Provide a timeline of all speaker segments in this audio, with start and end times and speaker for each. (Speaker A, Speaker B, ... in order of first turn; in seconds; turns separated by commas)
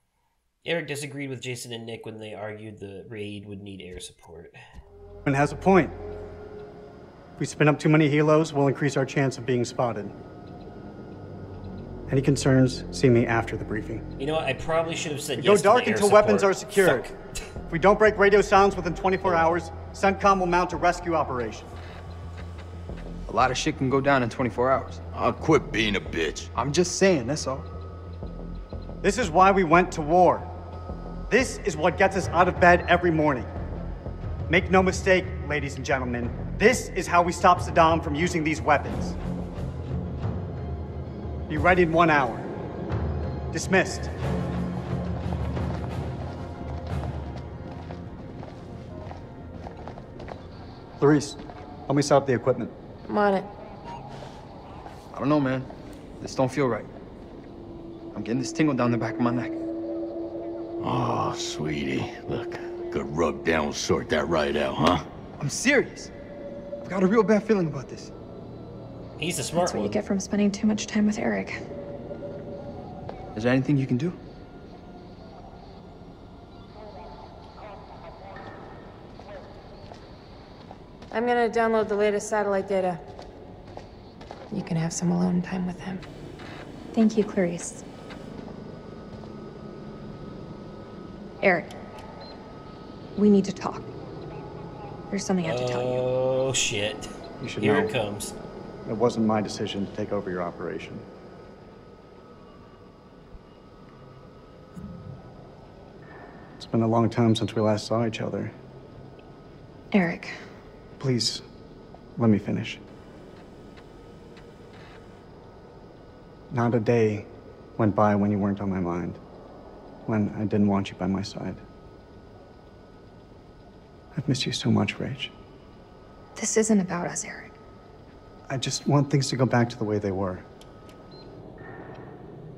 Speaker A: 0.6-4.6, Speaker B: 5.3-6.0, Speaker B: 7.4-10.1, Speaker B: 12.1-14.0, Speaker A: 14.2-17.2, Speaker B: 15.4-17.1, Speaker B: 17.7-21.7, Speaker A: 19.2-19.6, Speaker C: 23.3-25.0, Speaker D: 25.1-26.5, Speaker C: 26.6-27.7, Speaker B: 29.0-30.5, Speaker B: 31.3-33.5, Speaker B: 34.5-39.2, Speaker B: 41.5-42.5, Speaker B: 43.5-44.1, Speaker B: 51.0-52.7, Speaker E: 53.1-53.5, Speaker C: 55.1-55.7, Speaker C: 56.2-56.9, Speaker C: 58.1-59.6, Speaker D: 60.8-65.1, Speaker C: 65.4-66.1, Speaker C: 66.8-68.1, Speaker A: 69.2-70.0, Speaker F: 69.5-71.6, Speaker C: 73.3-74.2, Speaker E: 81.1-83.0, Speaker E: 84.5-86.0, Speaker F: 86.9-87.8, Speaker F: 91.4-91.7, Speaker F: 93.2-93.9, Speaker F: 95.1-96.1, Speaker A: 95.4-98.3, Speaker B: 97.4-98.0, Speaker B: 98.9-101.0, Speaker B: 106.6-108.5, Speaker F: 109.9-110.4, Speaker B: 111.0-111.4, Speaker B: 112.2-112.8, Speaker B: 116.5-119.2, Speaker B: 120.1-121.6, Speaker B: 124.1-125.3, Speaker F: 126.4-127.5, Speaker B: 128.5-130.4